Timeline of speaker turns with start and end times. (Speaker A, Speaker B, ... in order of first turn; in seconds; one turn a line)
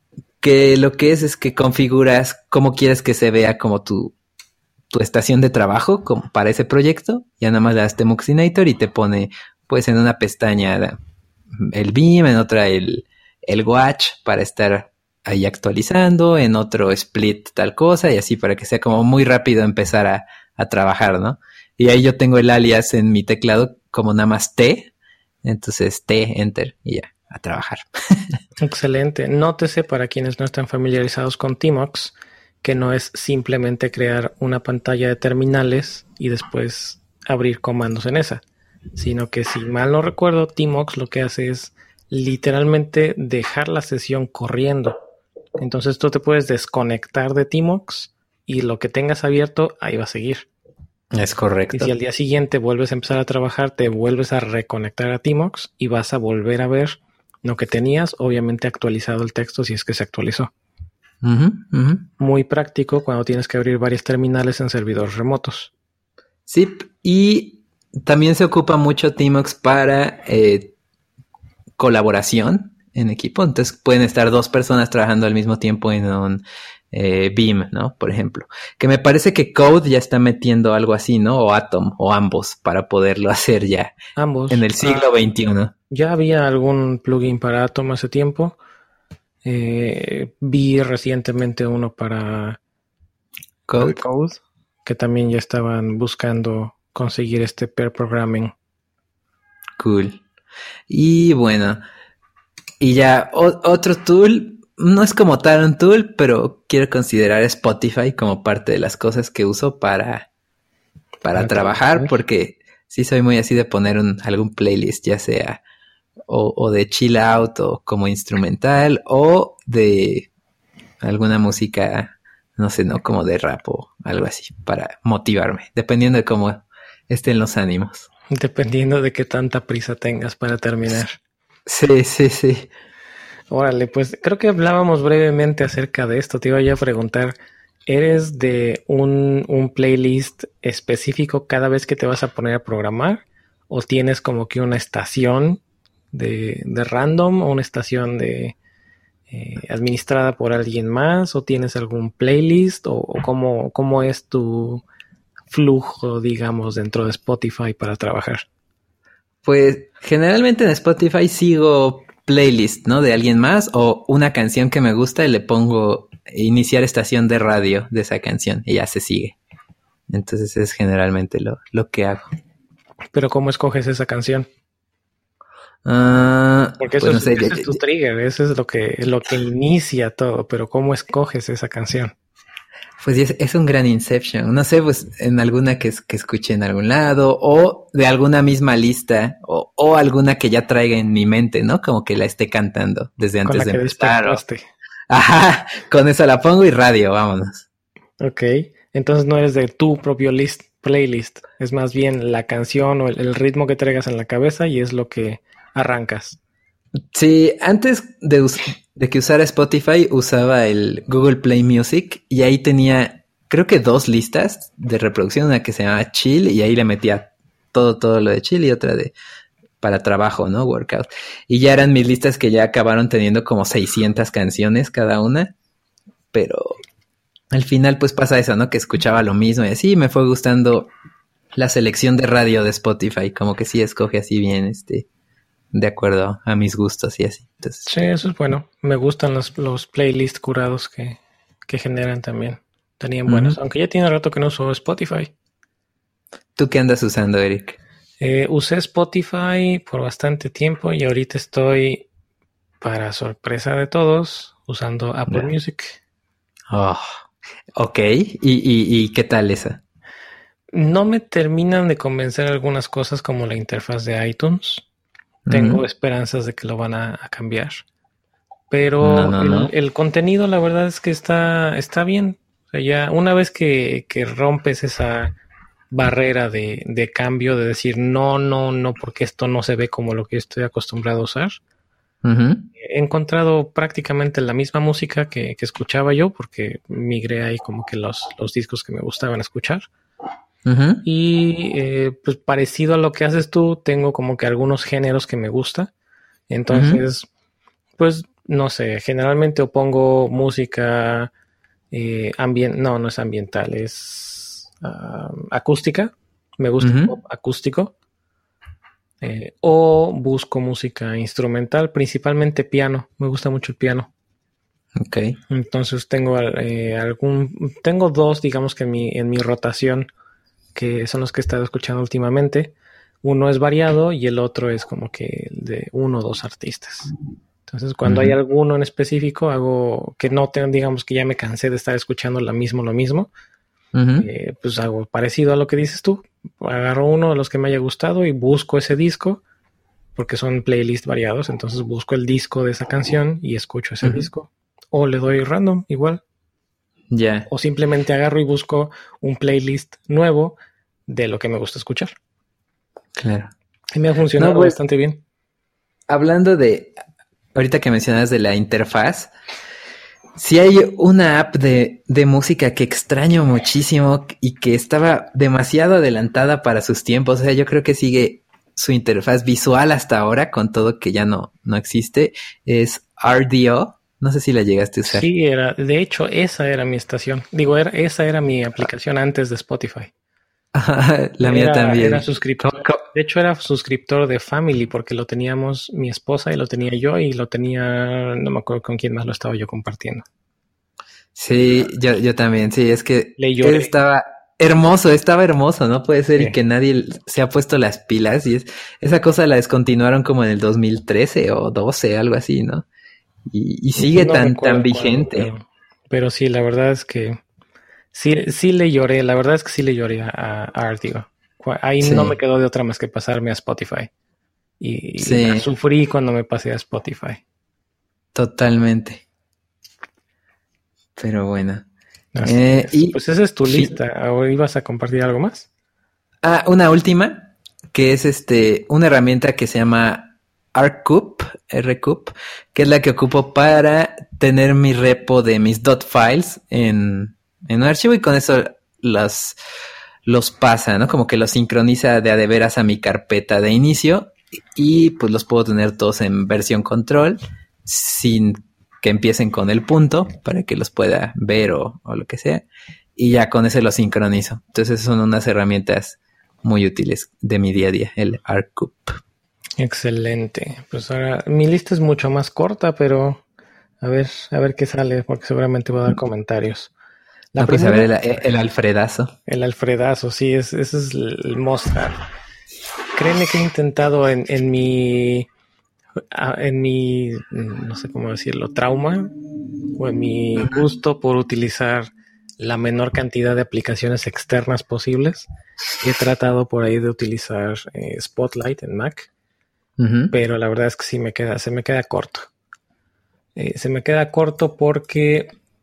Speaker A: 0.4-4.2
Speaker A: 4.9-11.0
Speaker A: 11.5-24.9
Speaker A: 25.4-28.4
Speaker B: 28.6-38.4
Speaker B: 39.0-45.0
Speaker B: 45.6-50.5
Speaker A: 51.1-51.9
Speaker B: 51.7-60.5
Speaker A: 61.2-62.1
Speaker B: 62.2-65.7
Speaker A: 66.5-70.7
Speaker A: 71.8-83.9
Speaker B: 84.2-85.1
Speaker A: 84.5-85.7
Speaker B: 85.9-88.6
Speaker B: 89.4-92.6
Speaker A: 93.7-94.0
Speaker B: 93.8-98.5
Speaker A: 99.8-100.2
Speaker A: 100.9-101.8
Speaker A: 102.8-110.3
Speaker A: 111.2-115.6
Speaker B: 111.3-112.2
Speaker A: 116.3-120.3
Speaker A: 121.0-128.1
Speaker B: 128.3-131.2
Speaker A: 131.7-132.7
Speaker B: 133.5-137.3
Speaker B: 137.9-145.6
Speaker B: 146.1-148.6
Speaker B: 149.3-154.8
Speaker B: 155.5-158.4
Speaker A: 159.4-169.3
Speaker A: 170.1-172.3
Speaker B: 173.1-174.5
Speaker A: 175.8-177.8
Speaker B: 176.8-182.1
Speaker A: 183.0-194.4
Speaker B: 193.4-194.7
Speaker A: 195.1-197.7
Speaker B: 198.2-206.4
Speaker A: 207.1-219.1
Speaker A: 219.8-225.5
Speaker A: 226.3-226.8
Speaker A: 227.5-230.9
Speaker A: 231.5-235.1
Speaker A: 235.7-237.9
Speaker B: 237.9-245.3
Speaker A: 243.3-243.6
Speaker A: 246.6-247.8
Speaker B: 248.2-252.1
Speaker B: 252.8-256.0
Speaker A: 256.7-257.2
Speaker A: 257.8-259.8
Speaker B: 260.7-264.8
Speaker A: 265.5-265.8
Speaker B: 265.5-267.8
Speaker B: 268.7-275.3
Speaker A: 269.0-269.7
Speaker B: 275.9-281.6
Speaker A: 282.2-282.7
Speaker B: 282.8-289.9
Speaker A: 290.6-291.0
Speaker B: 291.0-295.9
Speaker B: 296.5-297.3
Speaker A: 296.7-297.0
Speaker B: 298.0-301.3
Speaker B: 301.9-307.9
Speaker A: 306.8-307.1
Speaker B: 309.2-314.1
Speaker A: 315.0-315.4
Speaker B: 315.5-320.1
Speaker B: 320.7-327.1
Speaker B: 327.7-333.3
Speaker A: 328.0-328.4
Speaker A: 333.9-334.3
Speaker B: 334.2-339.4
Speaker B: 340.1-346.2
Speaker A: 347.1-347.5
Speaker B: 347.5-352.1
Speaker A: 353.1-353.5
Speaker B: 353.9-355.2
Speaker A: 354.4-354.8
Speaker A: 356.1-356.9
Speaker A: 357.5-359.3
Speaker A: 360.4-375.2
Speaker B: 375.0-380.1
Speaker A: 380.7-382.2
Speaker B: 381.4-390.2
Speaker A: 391.3-402.9
Speaker B: 393.4-393.9
Speaker A: 403.5-405.5
Speaker B: 404.0-407.4
Speaker B: 408.1-414.1
Speaker A: 412.0-412.4
Speaker B: 414.8-417.4
Speaker A: 415.2-415.6
Speaker A: 418.3-419.2
Speaker A: 421.2-421.9
Speaker B: 422.3-425.7
Speaker A: 422.4-423.9
Speaker A: 426.4-439.6
Speaker A: 440.2-459.2
Speaker B: 459.8-463.4
Speaker B: 464.0-466.9
Speaker B: 467.5-468.4
Speaker A: 467.6-469.3
Speaker B: 469.5-472.2
Speaker B: 473.1-475.5
Speaker B: 476.3-479.3
Speaker B: 480.0-485.5
Speaker B: 486.0-489.3
Speaker A: 490.0-490.3
Speaker B: 490.3-492.5
Speaker B: 493.6-495.5